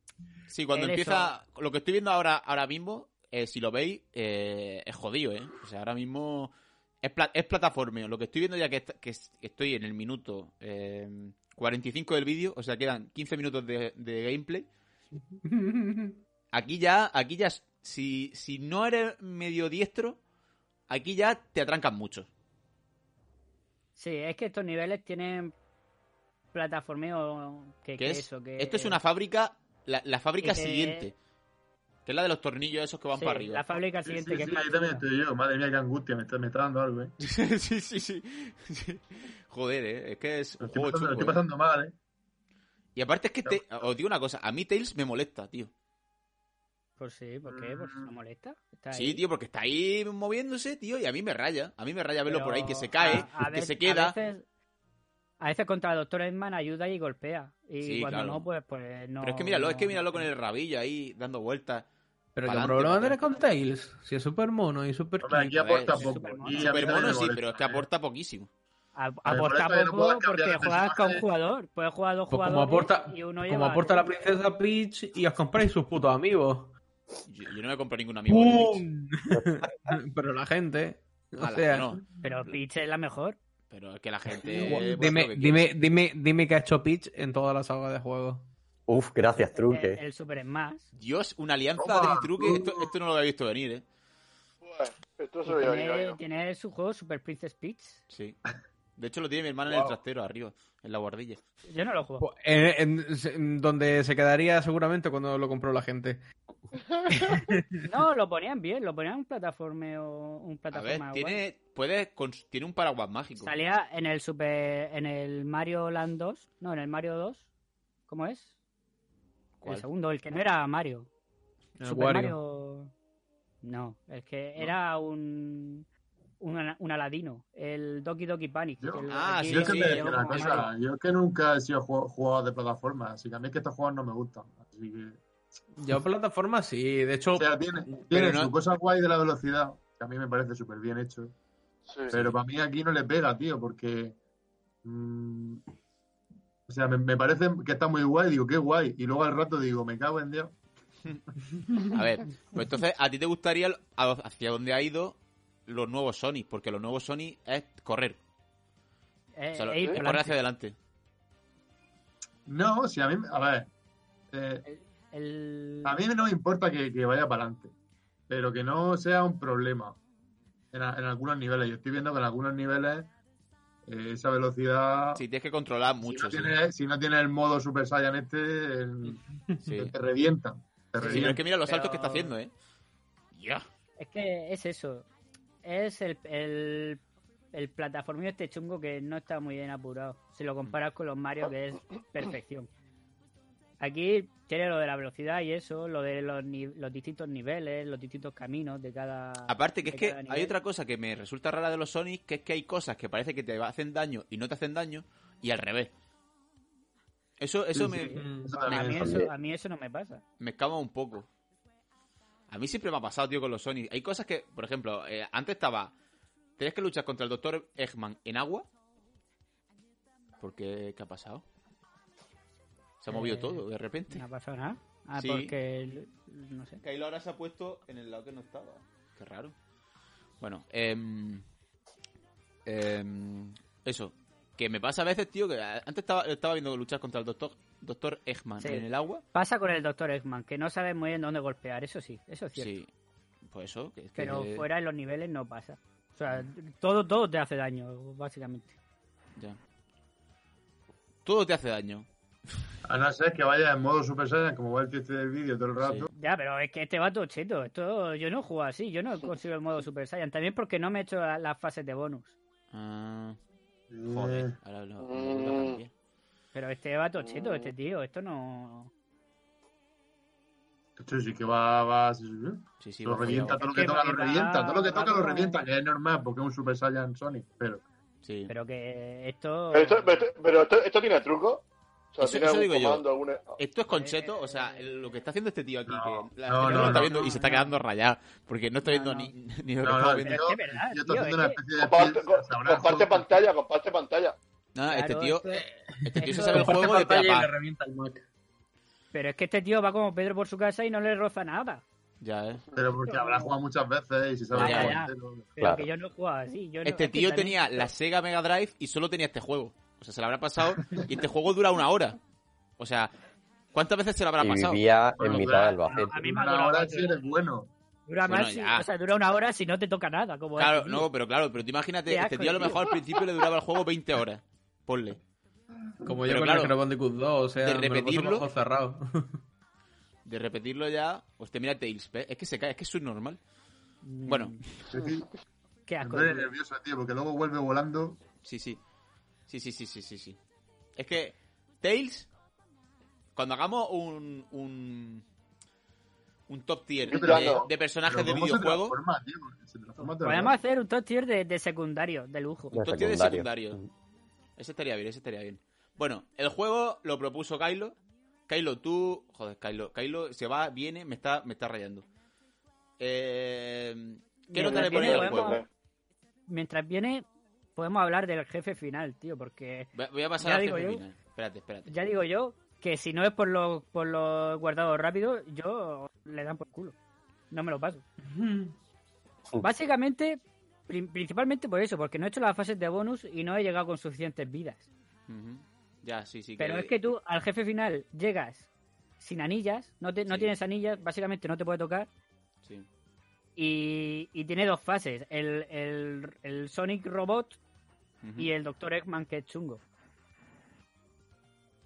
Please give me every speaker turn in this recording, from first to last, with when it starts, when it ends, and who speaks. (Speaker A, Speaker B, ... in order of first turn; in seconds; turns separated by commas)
Speaker A: 0.5-14.7, Speaker B: 0.7-1.3, Speaker C: 15.4-16.2, Speaker A: 16.5-20.2, Speaker A: 20.9-22.3, Speaker B: 24.0-25.5, Speaker B: 26.5-29.0, Speaker A: 28.0-31.1, Speaker B: 30.4-31.1, Speaker A: 32.1-33.6, Speaker B: 33.1-35.0, Speaker D: 34.0-37.1, Speaker A: 37.2-41.4, Speaker D: 40.6-41.9, Speaker A: 43.0-45.7, Speaker B: 47.0-49.2, Speaker D: 47.5-48.1, Speaker A: 48.9-54.2, Speaker B: 52.3-54.4, Speaker B: 55.4-60.3, Speaker A: 57.8-58.4, Speaker A: 59.2-61.9, Speaker C: 62.4-65.7, Speaker A: 62.4-63.3, Speaker D: 65.2-67.8, Speaker A: 65.5-68.5, Speaker B: 65.9-67.2, Speaker B: 69.0-74.0, Speaker D: 69.2-71.2, Speaker C: 72.3-76.8, Speaker A: 77.3-78.9, Speaker C: 78.3-82.0, Speaker A: 81.4-82.0, Speaker B: 82.2-83.4, Speaker A: 83.7-85.7, Speaker C: 84.4-88.5, Speaker E: 88.9-90.0, Speaker B: 89.5-90.9, Speaker A: 91.0-93.8, Speaker D: 91.8-92.9, Speaker F: 94.6-96.2, Speaker B: 95.5-98.0, Speaker A: 98.1-98.4, Speaker A: 99.0-101.4, Speaker D: 99.7-100.0, Speaker B: 101.7-102.3, Speaker C: 102.2-106.2, Speaker F: 106.9-107.2, Speaker C: 107.2-107.8, Speaker B: 107.8-111.4, Speaker A: 110.7-113.5, Speaker B: 113.4-117.5, Speaker B: 118.1-118.5, Speaker A: 119.6-119.9, Speaker B: 119.7-121.1, Speaker C: 121.8-122.4, Speaker B: 121.8-122.9, Speaker B: 123.6-125.9, Speaker B: 126.4-130.7, Speaker D: 128.8-135.2, Speaker A: 129.1-130.7, Speaker C: 135.8-138.1, Speaker D: 137.3-141.3, Speaker A: 138.1-138.5, Speaker F: 141.9-142.2, Speaker D: 142.1-144.2, Speaker D: 144.8-145.6, Speaker D: 146.7-150.6, Speaker A: 151.9-158.2, Speaker B: 159.4-160.4, Speaker A: 159.6-160.8, Speaker D: 162.5-163.7, Speaker D: 164.3-164.6, Speaker B: 164.7-166.0, Speaker D: 165.8-167.7, Speaker D: 168.3-170.0, Speaker D: 170.7-173.1, Speaker D: 173.9-175.2, Speaker A: 175.2-176.6, Speaker D: 176.0-179.2, Speaker A: 179.6-179.9, Speaker D: 179.8-181.4, Speaker B: 181.0-182.3, Speaker A: 181.0-182.5, Speaker A: 183.3-183.7, Speaker B: 184.0-185.1, Speaker B: 185.6-187.0, Speaker B: 187.5-192.7, Speaker B: 193.8-200.5, Speaker A: 199.5-205.9, Speaker A: 207.4-209.0, Speaker D: 207.8-209.1, Speaker C: 207.9-208.6, Speaker B: 207.9-210.2, Speaker E: 209.0-209.3, Speaker A: 210.4-211.3, Speaker A: 212.5-215.9, Speaker A: 216.6-218.7, Speaker A: 220.4-221.4, Speaker A: 223.0-224.2, Speaker B: 223.1-226.8, Speaker A: 225.2-225.5, Speaker A: 226.8-229.5, Speaker A: 230.4-231.4, Speaker A: 232.7-239.2, Speaker B: 238.6-242.8, Speaker A: 242.6-242.9, Speaker A: 243.5-244.7, Speaker B: 244.2-248.8, Speaker A: 251.2-252.1, Speaker D: 252.8-256.1, Speaker A: 255.8-256.1, Speaker B: 256.1-262.4, Speaker A: 262.7-263.4, Speaker D: 263.9-264.6, Speaker A: 264.1-265.9, Speaker F: 265.0-265.8, Speaker B: 266.5-268.9, Speaker F: 267.2-267.7, Speaker D: 271.0-277.9, Speaker A: 272.8-273.6, Speaker B: 273.3-275.6, Speaker A: 278.2-278.5, Speaker B: 278.5-280.2, Speaker F: 279.7-283.6, Speaker A: 282.2-283.1, Speaker A: 283.6-290.4, Speaker B: 283.9-285.2, Speaker D: 285.9-287.3, Speaker B: 286.6-287.8, Speaker B: 288.8-289.3, Speaker D: 289.8-293.3, Speaker B: 290.2-291.6, Speaker F: 291.8-294.4, Speaker A: 294.8-297.5, Speaker B: 294.9-295.6, Speaker C: 295.5-298.3, Speaker B: 296.2-296.9, Speaker B: 299.1-301.8, Speaker A: 302.2-302.6, Speaker D: 302.8-305.5, Speaker B: 303.0-303.6, Speaker A: 304.5-305.0, Speaker B: 304.5-307.9, Speaker E: 305.6-305.9, Speaker A: 306.9-312.2, Speaker A: 312.8-313.1, Speaker A: 313.7-314.8, Speaker E: 314.4-316.2, Speaker D: 315.2-317.7, Speaker B: 315.3-317.2, Speaker B: 318.1-321.1, Speaker A: 318.3-318.9, Speaker A: 320.6-325.2, Speaker B: 322.1-323.0, Speaker C: 326.0-329.4, Speaker A: 326.2-326.7, Speaker A: 327.6-328.5, Speaker A: 330.2-333.4, Speaker B: 334.0-334.6, Speaker A: 334.3-334.8, Speaker D: 334.9-335.3, Speaker B: 335.9-336.5, Speaker D: 336.0-338.2, Speaker A: 338.4-338.8, Speaker A: 339.5-340.4, Speaker A: 341.0-342.3, Speaker A: 343.4-345.2, Speaker A: 346.5-349.0, Speaker F: 347.1-347.6, Speaker D: 347.1-350.6, Speaker B: 350.0-352.8, Speaker E: 352.7-353.9, Speaker A: 352.8-353.8, Speaker A: 354.6-358.0, Speaker A: 358.5-362.1, Speaker A: 363.0-365.6, Speaker B: 364.5-365.6, Speaker F: 364.6-365.7, Speaker B: 366.5-371.0, Speaker A: 369.9-371.9, Speaker B: 371.9-377.0, Speaker B: 377.5-378.0, Speaker C: 378.3-378.8, Speaker B: 379.6-384.9, Speaker A: 385.3-386.9, Speaker B: 386.6-388.7, Speaker B: 389.2-392.1, Speaker B: 393.6-397.6, Speaker A: 398.2-398.5, Speaker B: 398.4-399.8